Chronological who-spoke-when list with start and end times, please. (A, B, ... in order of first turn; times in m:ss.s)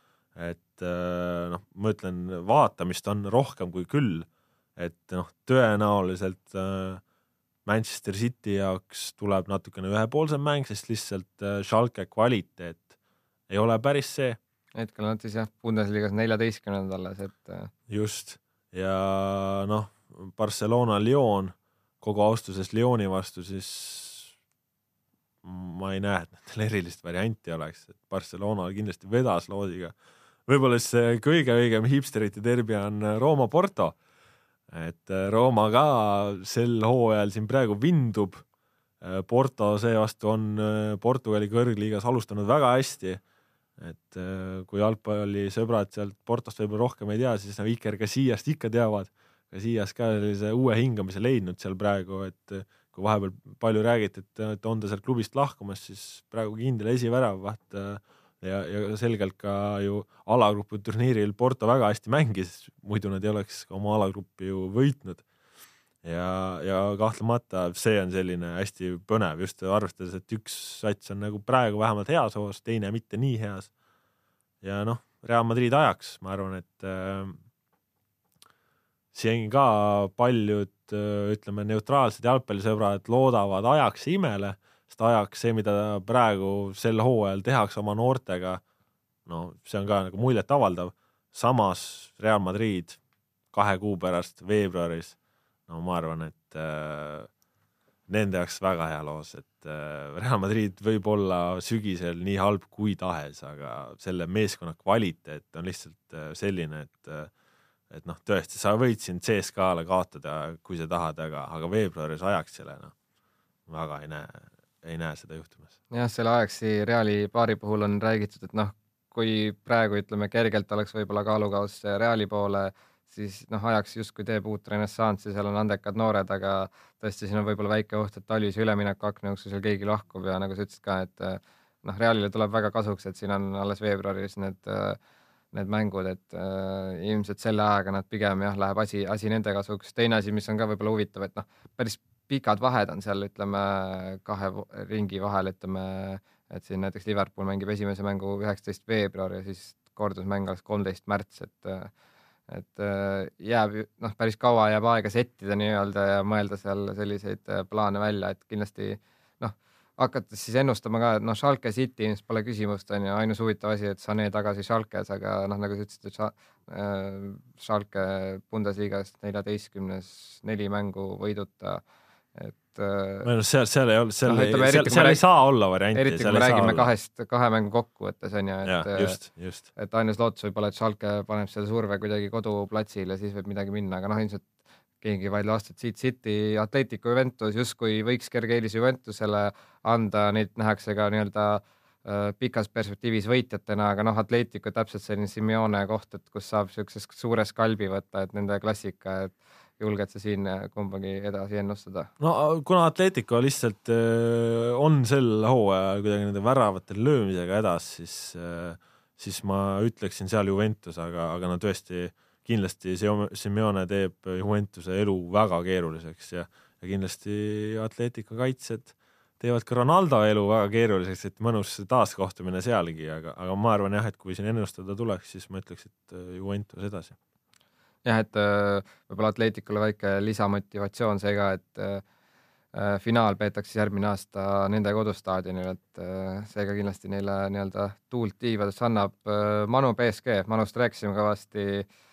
0:00.4-0:07.0 A
0:07.7-0:12.9 A
0:13.5-0:14.4 A
0:14.8-0:17.7 B
0:17.9-0:24.3 A
0:25.4-0:29.9 A
0:30.5-0:34.0 A
0:34.7-0:38.4 A
0:39.0-0:43.2 A
0:43.8-1:05.2 A
1:06.0-1:13.7 A
1:14.6-1:17.4 A
1:19.1-1:28.6 A
1:29.3-1:33.0 A
1:33.5-1:35.2 A
1:35.7-1:37.3 A
1:38.1-1:47.3 A
1:47.9-1:52.9 A
1:53.7-1:55.7 A
1:55.9-2:15.0 B
2:15.5-2:31.9 B
2:32.5-2:51.8 B
2:52.4-2:53.3 B
2:53.2-2:56.9 A
2:54.3-2:55.2 B
2:55.9-2:59.2 B
2:58.6-2:59.7 A
2:59.8-3:04.4 B
3:05.0-3:22.1 B
3:22.2-3:47.2 A
3:48.0-3:52.0 B
3:52.7-4:01.9 B